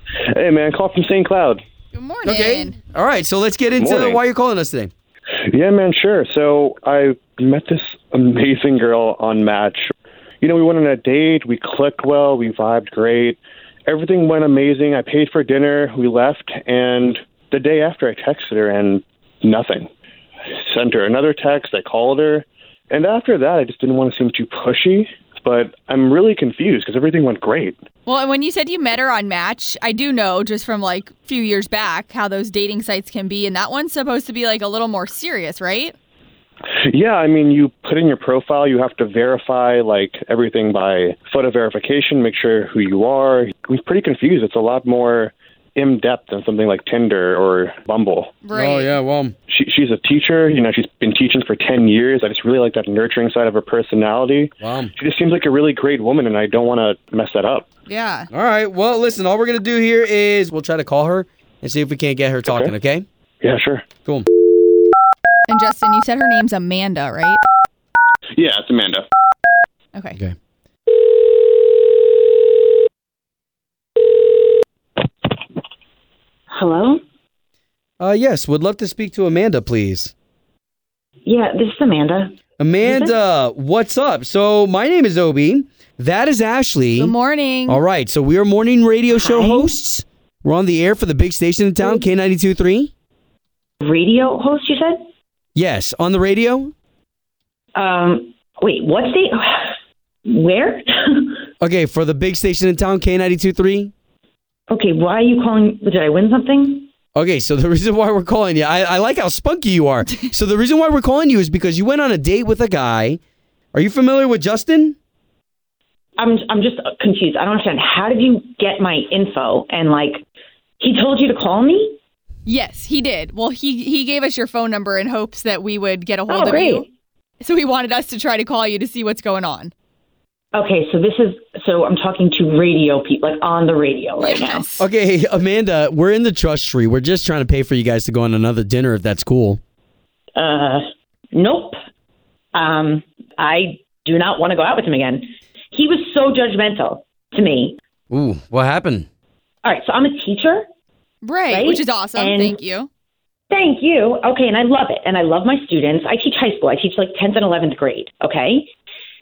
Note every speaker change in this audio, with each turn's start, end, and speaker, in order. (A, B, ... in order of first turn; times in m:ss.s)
0:00.3-0:01.6 A
0:01.9-0:02.8 B
0:02.2-0:04.9 C
0:03.8-0:04.2 A
0:05.5-0:09.8 A
0:10.4-0:19.9 A
0:20.7-0:27.8 A
0:28.0-0:35.9 B
0:36.9-0:48.3 A
0:48.4-0:48.9 B
0:48.5-0:49.3 C
0:49.5-0:57.7 A
0:54.6-0:54.9 C
0:57.9-0:58.3 B
0:58.3-1:03.0 C
1:02.4-1:02.7 A
1:03.4-1:03.9 A
1:05.5-1:07.4 B
1:08.4-1:09.0 A
1:09.9-1:10.2 B
1:16.5-1:17.0 D
1:18.0-1:20.1 C
1:21.2-1:23.2 D
1:22.6-1:27.1 C
1:27.0-1:27.8 B
1:27.7-1:32.9 C
1:29.1-1:29.7 D
1:33.8-1:35.0 D
1:35.5-1:36.7 C
1:37.7-1:39.7 D
1:40.2-1:41.4 D
1:41.6-1:43.9 C
1:44.7-1:46.9 D
1:47.1-1:53.2 C
1:53.7-1:55.0 C
1:56.2-2:00.2 D
2:00.8-2:02.0 D
2:02.4-2:06.9 B
2:06.3-2:06.8 D
2:07.4-2:09.7 B
2:10.5-2:14.6 D
2:14.2-2:14.8 B
2:14.8-2:19.6 C
2:20.4-2:21.8 D
2:22.5-2:27.8 D
2:28.1-2:29.0 C
2:29.6-2:30.6 D
2:31.2-2:32.9 B
2:31.5-2:32.6 D
2:33.5-2:38.7 D